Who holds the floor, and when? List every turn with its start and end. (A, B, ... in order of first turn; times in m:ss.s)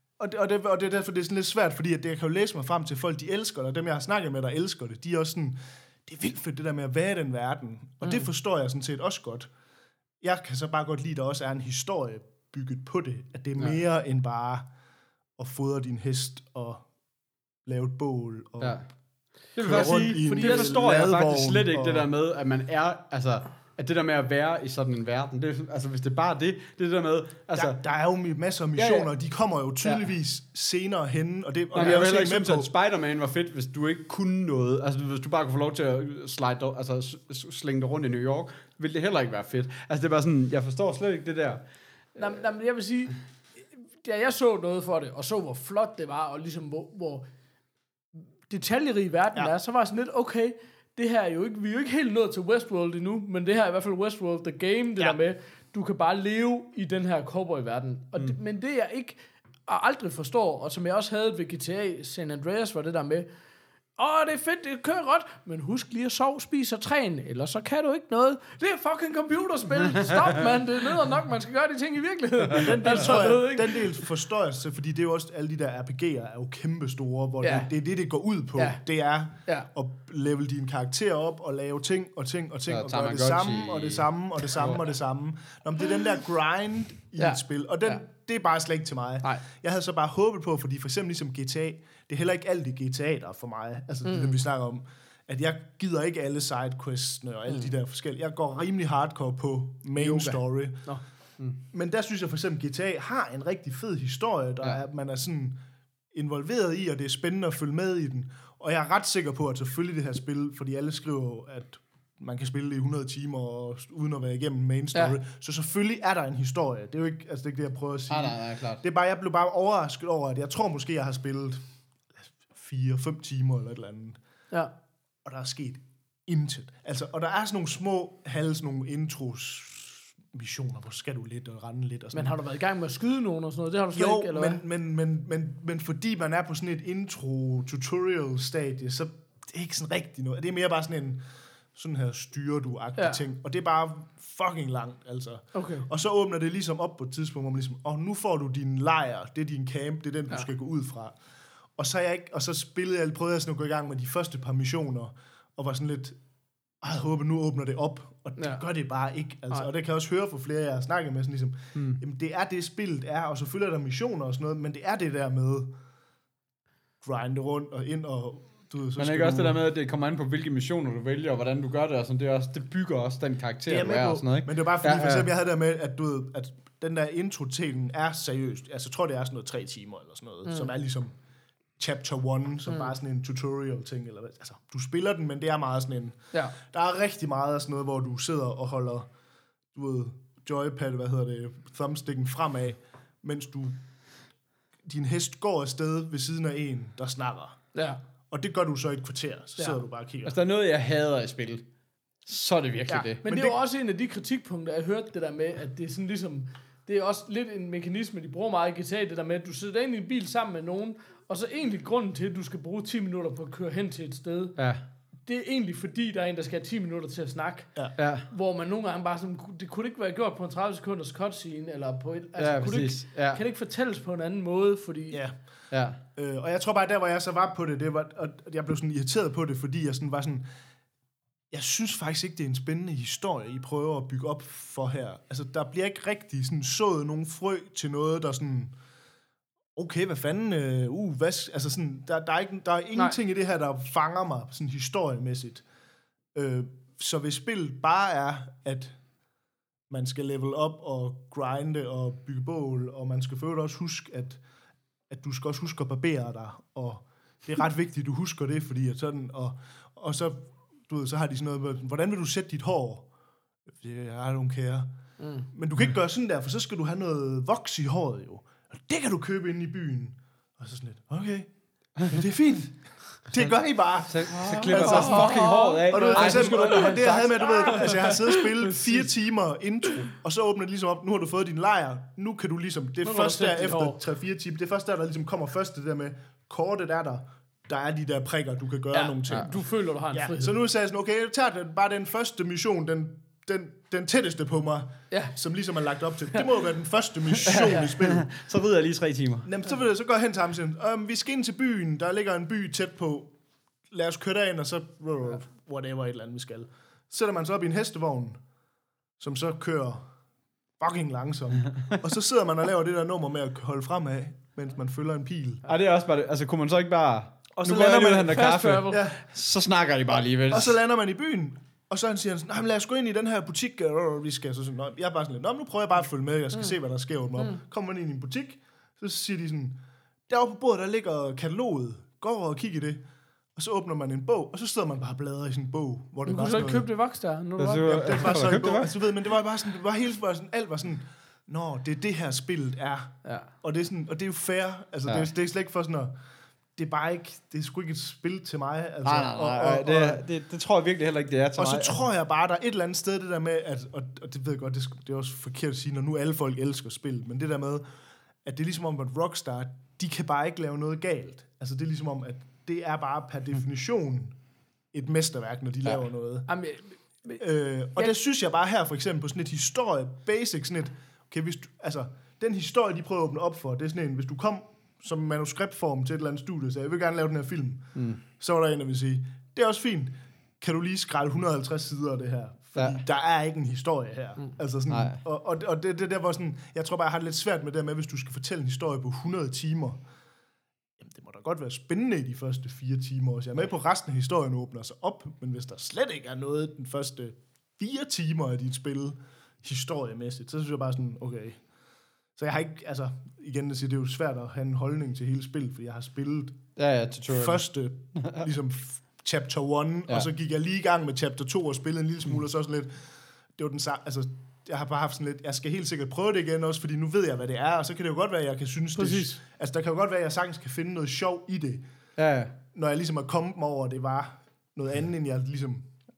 0:00.2-0:09.5 A
0:10.2-0:14.7 A
0:15.4-0:16.8 A
0:17.6-0:18.8 A
0:18.6-0:18.9 B
0:19.6-0:27.8 B
0:19.6-0:22.1 A
0:19.7-0:20.8 C
0:27.5-0:32.7 A
0:28.8-0:29.1 B
0:31.7-0:41.6 B
0:42.2-0:43.2 C
0:43.8-0:47.2 C
0:48.5-1:03.3 C
1:04.0-1:13.9 C
1:12.6-1:40.9 A
1:17.4-1:17.7 C
1:18.6-1:18.8 C
1:22.7-1:24.8 B
1:27.2-1:28.0 C
1:34.0-1:34.4 C
1:37.5-1:37.7 C
1:40.0-1:41.0 C
1:41.7-1:45.6 A
1:46.1-2:01.6 A
1:58.1-1:58.8 B
2:02.3-2:04.2 A
2:05.2-2:12.4 A
2:12.1-2:14.6 C
2:13.9-2:21.2 A
2:21.7-2:31.2 A
2:25.5-2:25.9 C
2:31.8-2:36.2 A
2:36.8-2:45.7 A
2:38.4-2:38.6 C
2:41.7-2:42.0 B
2:47.0-2:49.6 A
2:49.0-2:55.3 B
2:53.7-3:01.1 A
3:00.4-3:00.7 C
3:01.8-3:09.1 A
3:09.7-3:13.8 A
3:14.8-3:17.6 A
3:18.3-3:20.4 A
3:20.2-3:21.6 B
3:22.2-3:23.2 B
3:22.9-3:23.6 A
3:23.2-3:34.6 C
3:34.6-3:34.8 B
3:35.3-3:37.7 C
3:38.0-3:38.3 B
3:38.3-3:45.2 C
3:42.4-3:43.4 B
3:45.1-3:45.4 A
3:45.7-3:46.0 B
3:46.2-3:50.4 A
3:51.5-3:58.7 A
3:59.8-4:05.6 A
4:06.3-4:09.0 A
4:09.9-4:14.4 A
4:15.1-4:23.1 A
4:23.7-4:24.9 A
4:25.2-4:25.5 C
4:25.5-4:49.6 A
4:34.1-4:38.0 B
4:34.3-4:39.1 C
4:43.0-4:44.0 C
4:48.9-4:50.6 C
4:50.1-4:58.3 A
4:57.4-4:59.5 B
4:59.4-5:03.3 A
5:03.9-5:08.4 A
5:09.2-5:10.1 A
5:10.8-5:15.7 A
5:15.7-5:20.8 B
5:17.6-5:19.2 A
5:18.2-5:19.0 C
5:20.5-5:33.0 A
5:33.6-5:36.9 A
5:36.3-5:38.0 C
5:37.6-5:38.9 B
5:37.9-5:46.1 A
5:43.2-5:43.5 C
5:46.8-5:50.2 A
5:49.0-5:52.0 B
5:51.6-5:57.9 A
5:58.4-6:04.4 A
6:04.9-6:06.5 A
6:06.5-6:07.4 C
6:07.4-6:30.0 A
6:18.0-6:18.2 B
6:24.9-6:25.2 B
6:31.0-6:41.6 A
6:42.4-6:46.6 A
6:46.8-6:47.6 B
6:47.3-7:01.8 A
6:48.2-6:48.4 B
6:59.0-6:59.4 C
7:02.2-7:02.5 B
7:02.7-7:05.9 A